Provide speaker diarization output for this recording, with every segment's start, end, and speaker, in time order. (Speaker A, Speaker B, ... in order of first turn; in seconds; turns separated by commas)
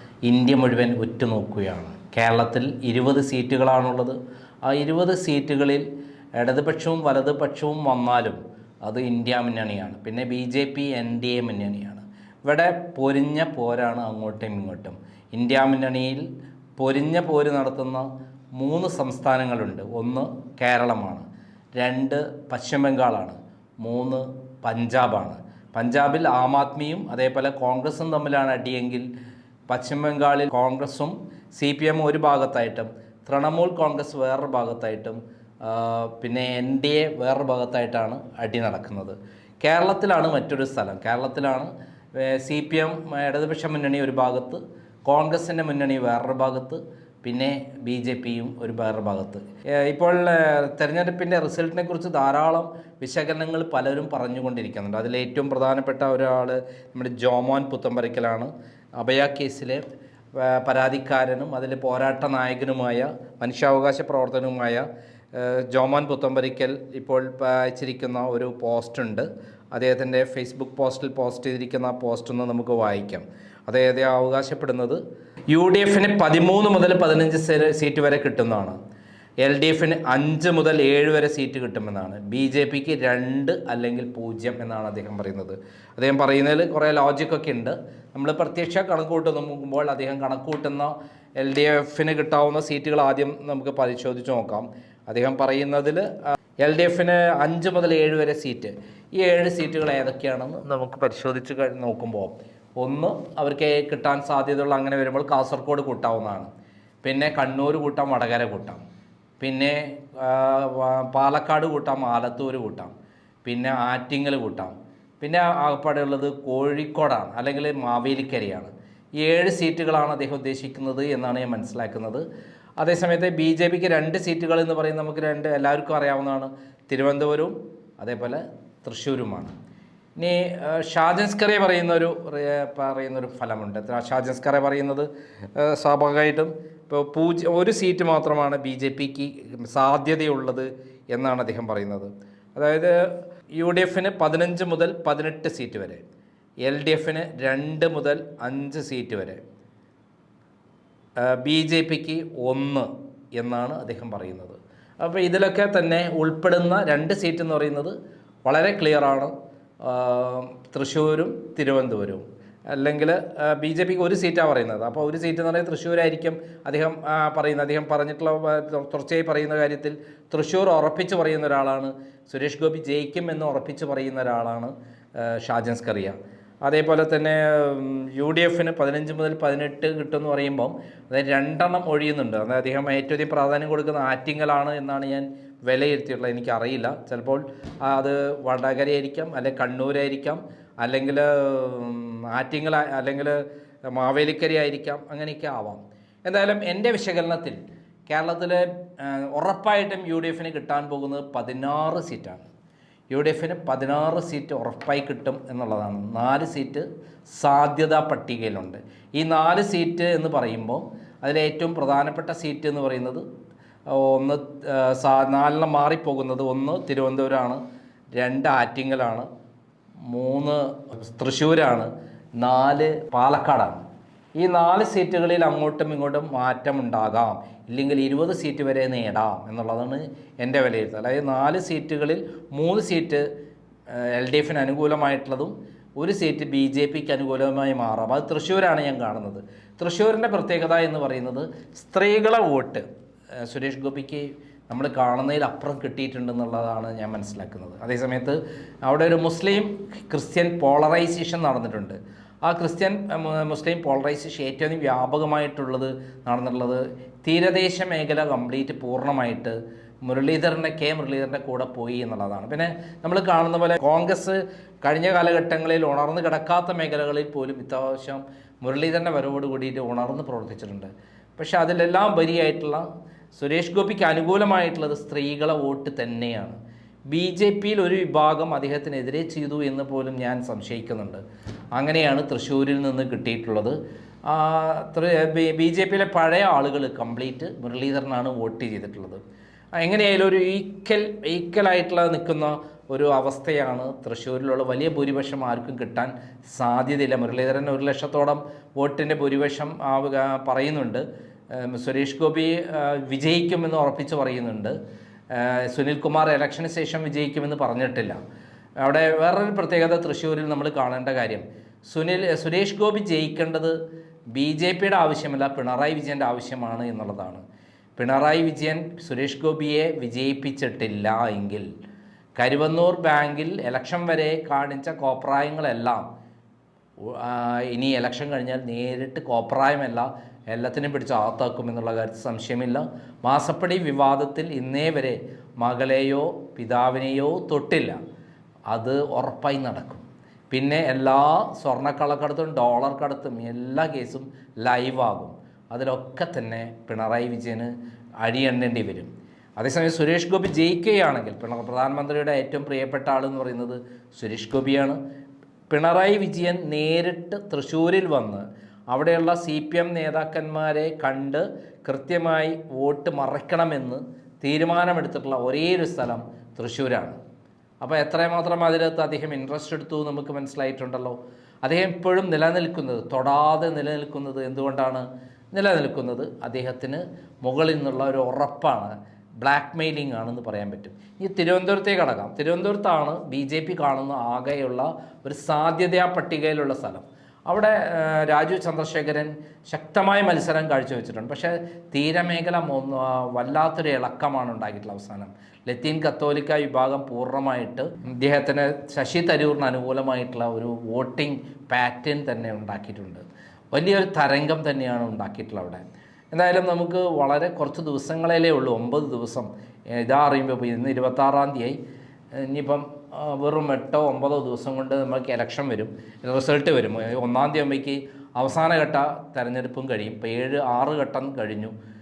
Speaker A: 0.2-5.8, Speaker A: 6.4-16.2, Speaker A: 16.8-29.1, Speaker A: 29.7-59.8, Speaker A: 60.3-78.8, Speaker A: 79.4-106.5, Speaker A: 107.0-108.8, Speaker A: 109.4-112.9, Speaker A: 113.4-122.2, Speaker A: 122.8-129.5, Speaker A: 130.2-143.0, Speaker A: 143.5-146.0, Speaker A: 146.6-149.4, Speaker A: 151.2-202.4, Speaker A: 203.1-213.2, Speaker A: 213.9-217.6, Speaker A: 218.1-219.3, Speaker A: 220.1-221.9, Speaker A: 222.4-223.8, Speaker A: 224.4-233.3, Speaker A: 233.9-242.8, Speaker A: 243.4-276.6, Speaker A: 277.1-281.2, Speaker A: 281.7-289.2, Speaker A: 289.8-304.8, Speaker A: 305.3-308.2, Speaker A: 308.8-313.8, Speaker A: 314.3-317.4, Speaker A: 318.0-321.7, Speaker A: 322.4-326.0, Speaker A: 327.0-338.0, Speaker A: 338.7-355.0, Speaker A: 355.7-367.2, Speaker A: 367.8-405.8, Speaker A: 406.3-411.8, Speaker A: 412.3-421.7